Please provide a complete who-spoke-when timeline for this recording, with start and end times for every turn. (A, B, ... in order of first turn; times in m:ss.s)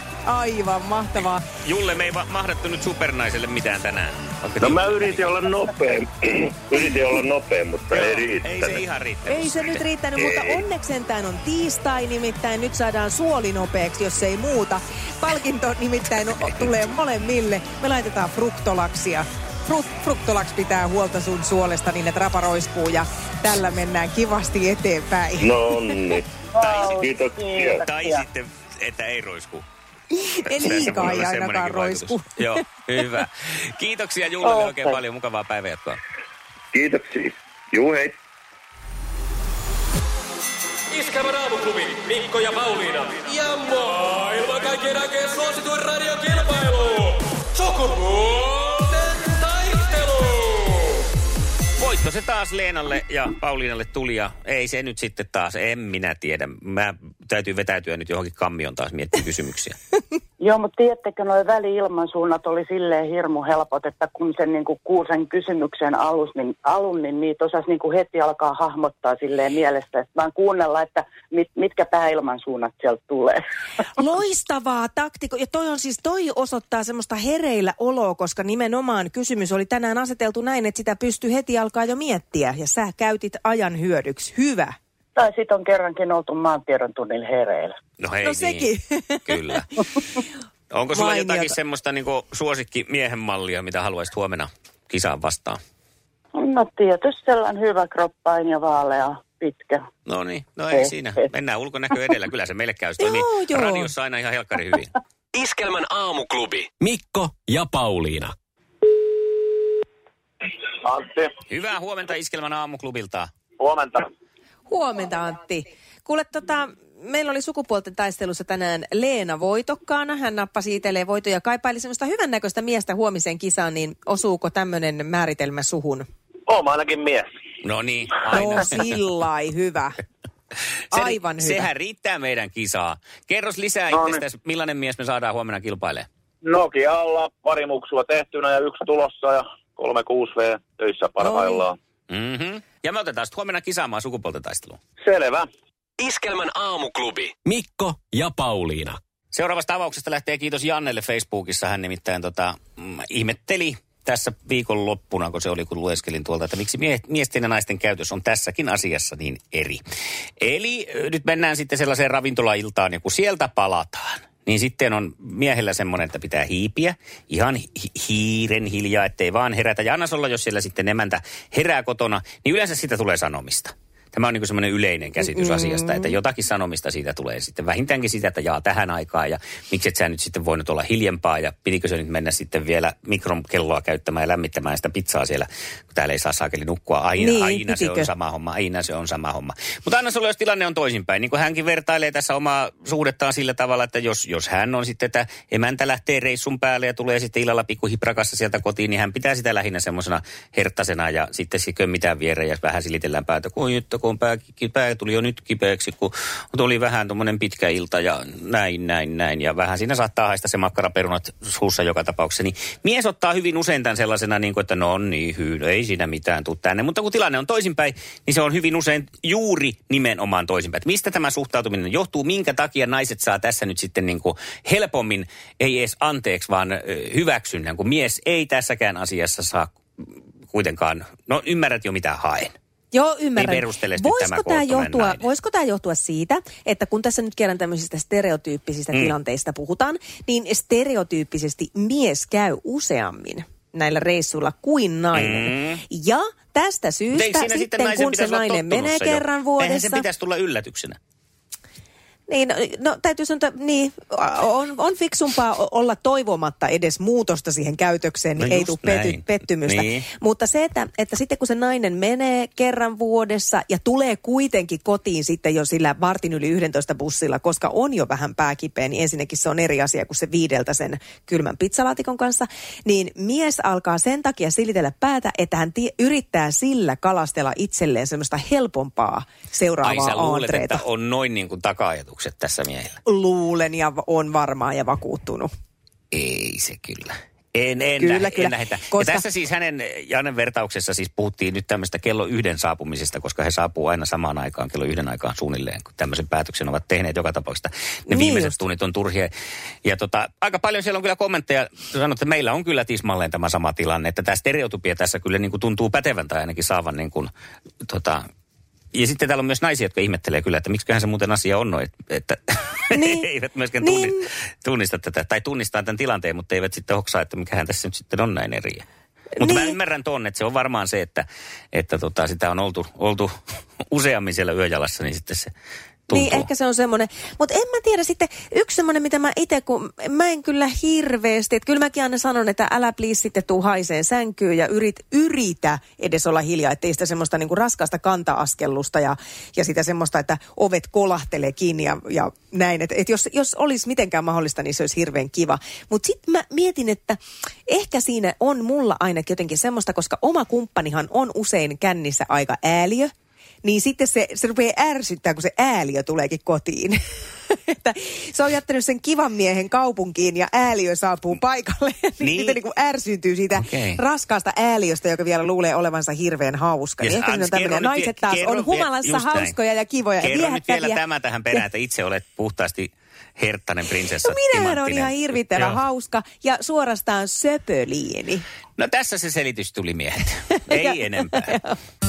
0:00.3-0:01.4 A
0:01.6-0:05.3 B
0:04.6-0:08.9 C
0:07.9-0:09.8 B
0:09.3-0:26.0 A
0:10.2-0:10.6 C
0:25.4-0:27.9 C
0:26.6-0:28.2 D
0:26.6-0:26.9 B
0:27.8-0:29.6 B
0:30.1-0:32.6 A
0:30.5-0:36.0 B
0:34.4-0:35.0 D
0:36.7-0:38.2 C
0:40.9-0:50.5 E
0:51.8-0:59.8 B
1:00.4-1:13.4 D
1:14.0-1:24.8 A
1:25.2-1:27.8 D
1:28.0-1:28.7 B
1:28.2-1:29.6 A
1:29.3-1:29.7 B
1:30.7-1:35.6 B
1:30.9-1:31.6 A
1:36.4-1:39.8 D
1:40.1-1:44.9 B
1:40.7-1:41.2 D
1:43.0-1:43.9 A
1:45.3-1:48.3 E
1:50.8-1:51.3 F
1:51.5-1:53.3 B
1:53.6-1:54.1 F
1:54.7-2:06.1 A
2:06.5-2:07.3 F
2:07.6-2:08.8 B
2:08.3-2:10.0 A
2:10.9-2:11.7 A
2:10.9-2:16.1 B
2:13.9-2:14.2 F
2:16.4-2:21.8 F
2:21.2-2:21.7 A
2:22.1-2:24.8 B
2:25.0-2:25.5 F
2:26.0-2:29.0 E
2:29.3-2:39.8 B
2:40.4-3:52.5 B
2:55.3-2:56.1 A
3:07.2-3:08.1 A
3:52.9-4:10.0 A
3:53.4-3:55.2 B
4:05.2-4:05.8 B
4:07.1-4:11.0 B
4:12.3-4:40.8 A
4:18.4-4:20.0 B
4:39.8-4:43.0 B
4:43.1-4:45.5 A
4:46.1-4:59.3 B
4:47.9-4:49.2 A
4:58.1-4:58.6 A
4:59.8-5:07.3 B
5:07.9-5:08.2 B
5:08.9-5:18.8 B
5:12.9-5:13.3 A
5:13.8-5:14.3 A
5:19.4-5:19.8 A
5:19.4-5:23.3 B
5:23.9-5:25.5 B
5:26.1-5:26.5 B
5:26.1-5:53.1 A
5:53.6-5:57.0 A
5:57.5-6:11.0 A
6:02.2-6:02.6 B
6:03.6-6:04.0 B
6:07.0-6:09.6 B
6:10.2-6:15.8 B
6:14.2-6:18.4 A
6:18.8-6:21.5 B
6:20.7-6:21.8 A